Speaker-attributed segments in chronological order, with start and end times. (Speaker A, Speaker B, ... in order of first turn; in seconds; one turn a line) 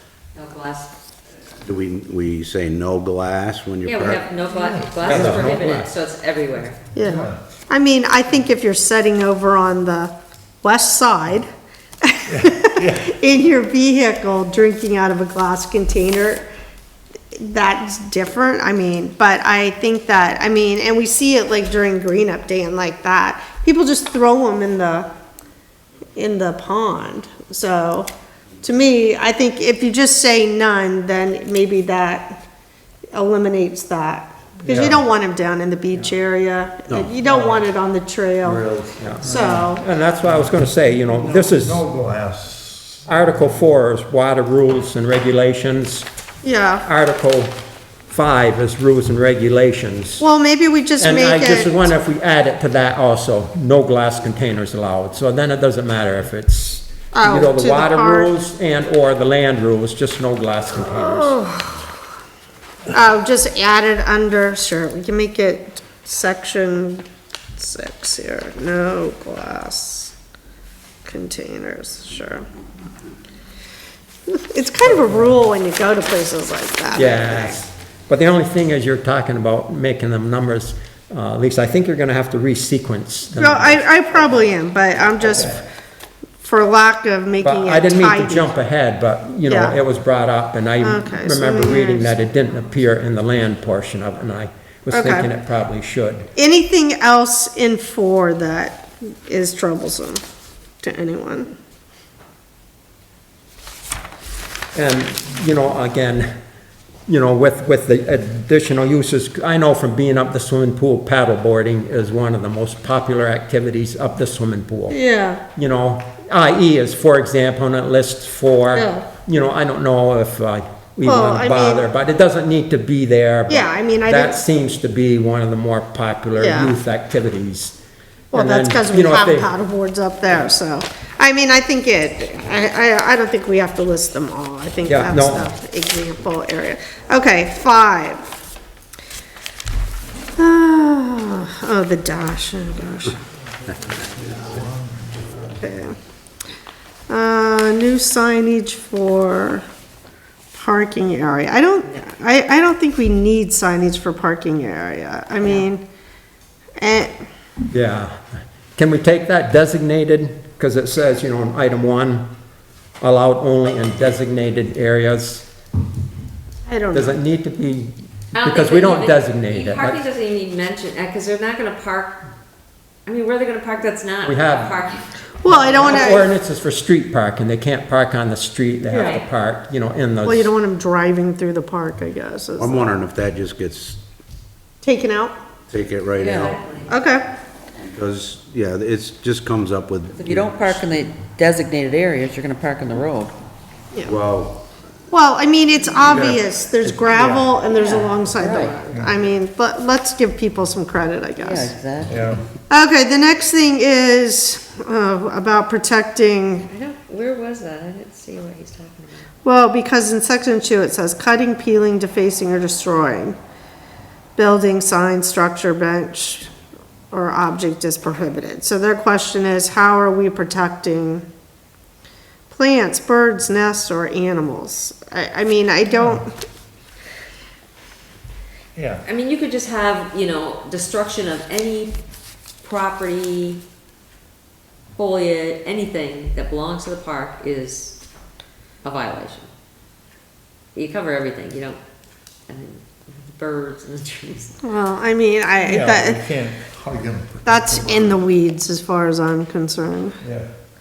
Speaker A: 0.3-0.9
Speaker B: 1.6-4.2
Speaker A: 3.9-6.9
Speaker C: 4.7-5.4
Speaker D: 5.0-5.9
Speaker E: 7.0-11.5
Speaker C: 7.0-7.4
Speaker E: 12.0-16.4
Speaker C: 12.3-13.1
Speaker E: 17.4-25.1
Speaker E: 26.2-28.1
Speaker E: 28.6-32.4
Speaker E: 33.1-38.7
Speaker D: 34.7-35.0
Speaker C: 37.2-37.7
Speaker D: 38.5-41.9
Speaker C: 38.7-39.5
Speaker E: 39.2-39.8
Speaker C: 41.2-43.1
Speaker D: 43.1-46.1
Speaker E: 46.4-46.9
Speaker D: 46.8-47.5
Speaker D: 48.1-50.2
Speaker E: 50.2-51.9
Speaker D: 51.0-61.4
Speaker E: 57.1-58.3
Speaker E: 60.9-62.0
Speaker E: 62.9-67.0
Speaker E: 67.6-70.1
Speaker E: 71.1-72.5
Speaker E: 74.3-77.6
Speaker D: 77.0-83.9
Speaker E: 83.4-85.7
Speaker E: 86.4-88.5
Speaker D: 87.4-96.3
Speaker E: 89.5-89.8
Speaker E: 90.8-92.2
Speaker E: 94.9-95.3
Speaker E: 96.4-100.2
Speaker E: 100.8-101.5
Speaker D: 104.7-106.3
Speaker D: 107.1-115.0
Speaker E: 114.9-115.4
Speaker D: 115.5-127.8
Speaker E: 118.7-119.1
Speaker E: 121.0-121.8
Speaker E: 123.5-124.4
Speaker E: 126.4-126.7
Speaker E: 128.3-138.4
Speaker D: 128.3-129.5
Speaker D: 134.8-135.5
Speaker E: 140.4-143.2
Speaker C: 144.2-144.9
Speaker E: 145.6-145.9
Speaker E: 147.1-149.6
Speaker E: 150.5-155.8
Speaker A: 151.8-152.1
Speaker E: 156.8-157.1
Speaker D: 157.7-158.1
Speaker D: 158.8-162.3
Speaker D: 163.0-165.5
Speaker E: 166.7-167.2
Speaker D: 166.9-170.0
Speaker A: 168.3-172.2
Speaker A: 173.1-175.1
Speaker D: 174.2-174.8
Speaker E: 175.4-176.3
Speaker D: 175.5-180.5
Speaker A: 175.6-176.1
Speaker E: 178.9-179.2
Speaker A: 178.9-179.2
Speaker E: 180.2-182.9
Speaker B: 182.6-184.0
Speaker E: 184.8-185.3
Speaker B: 185.7-186.6
Speaker A: 186.2-186.9
Speaker E: 186.9-187.2
Speaker B: 187.9-190.9
Speaker F: 190.2-193.3
Speaker B: 194.1-194.6
Speaker E: 195.1-201.7
Speaker C: 196.0-197.6
Speaker C: 198.9-199.2
Speaker F: 201.4-202.1
Speaker C: 202.1-202.4
Speaker E: 202.7-206.7
Speaker A: 206.7-209.2
Speaker E: 209.4-213.3
Speaker E: 214.3-216.5
Speaker E: 217.1-221.2
Speaker E: 222.5-226.3
Speaker C: 228.8-229.0
Speaker A: 229.0-232.0
Speaker A: 232.6-233.6
Speaker A: 235.0-238.0
Speaker A: 238.8-239.5
Speaker A: 240.7-241.8
Speaker A: 242.5-244.6
Speaker E: 244.6-246.3
Speaker C: 245.6-248.2
Speaker E: 247.4-250.2
Speaker C: 250.2-250.5